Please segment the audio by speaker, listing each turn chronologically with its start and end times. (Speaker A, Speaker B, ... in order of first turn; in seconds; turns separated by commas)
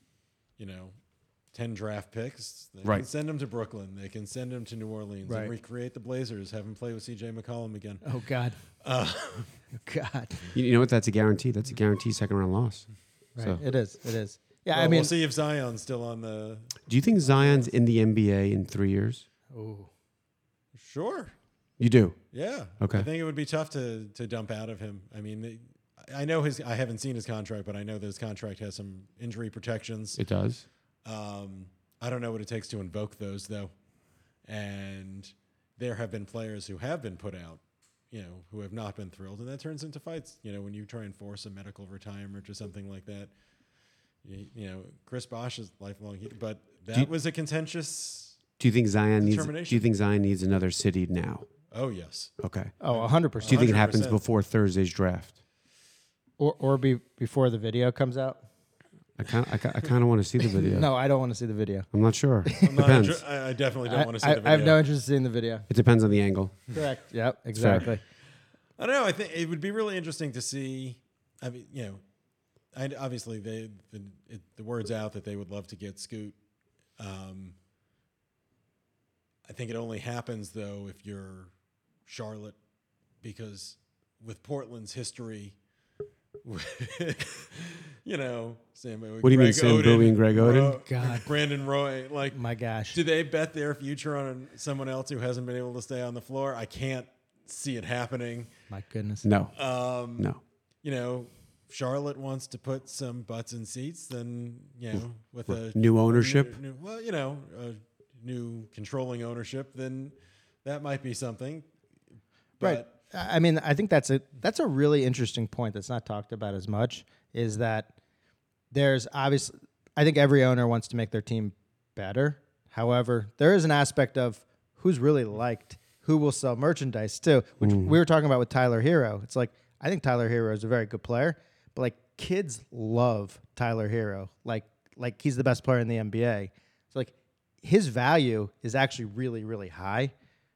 Speaker A: 0.6-0.9, Speaker A: 1.5-9.6, Speaker B: 5.2-5.5, Speaker B: 8.0-8.7, Speaker B: 9.7-10.5, Speaker C: 10.5-13.6, Speaker B: 13.3-15.1, Speaker A: 14.7-17.7, Speaker C: 16.9-19.2, Speaker B: 19.5-19.9, Speaker A: 20.7-21.3, Speaker C: 21.8-22.2, Speaker A: 22.3-30.2, Speaker C: 22.8-23.1, Speaker C: 30.2-30.6, Speaker A: 31.0-33.7, Speaker A: 34.4-43.3, Speaker A: 44.2-48.4, Speaker C: 48.6-51.5, Speaker A: 49.2-49.8, Speaker A: 51.7-52.3, Speaker C: 52.4-52.7, Speaker B: 52.8-53.7, Speaker A: 52.9-54.2, Speaker C: 53.4-55.4, Speaker B: 56.4-58.4, Speaker C: 59.2-60.9, Speaker B: 60.5-61.9, Speaker C: 61.9-63.2, Speaker B: 62.4-62.7, Speaker A: 62.6-64.8, Speaker B: 63.9-65.7, Speaker C: 65.7-66.6, Speaker B: 66.7-68.0, Speaker C: 67.5-67.8, Speaker A: 68.8-72.0, Speaker A: 72.7-76.3, Speaker A: 77.0-77.5, Speaker A: 79.5-81.5, Speaker A: 82.0-82.6, Speaker A: 83.2-85.6, Speaker A: 86.4-92.4, Speaker C: 89.2-90.8, Speaker B: 90.4-91.3, Speaker B: 92.3-93.0, Speaker A: 92.9-98.5, Speaker B: 98.7-99.3, Speaker C: 99.2-99.6, Speaker A: 99.5-100.3, Speaker C: 100.2-100.4, Speaker A: 100.8-111.7, Speaker C: 105.5-106.6, Speaker A: 112.6-112.9, Speaker B: 112.6-117.9, Speaker B: 118.7-140.1, Speaker C: 127.6-127.9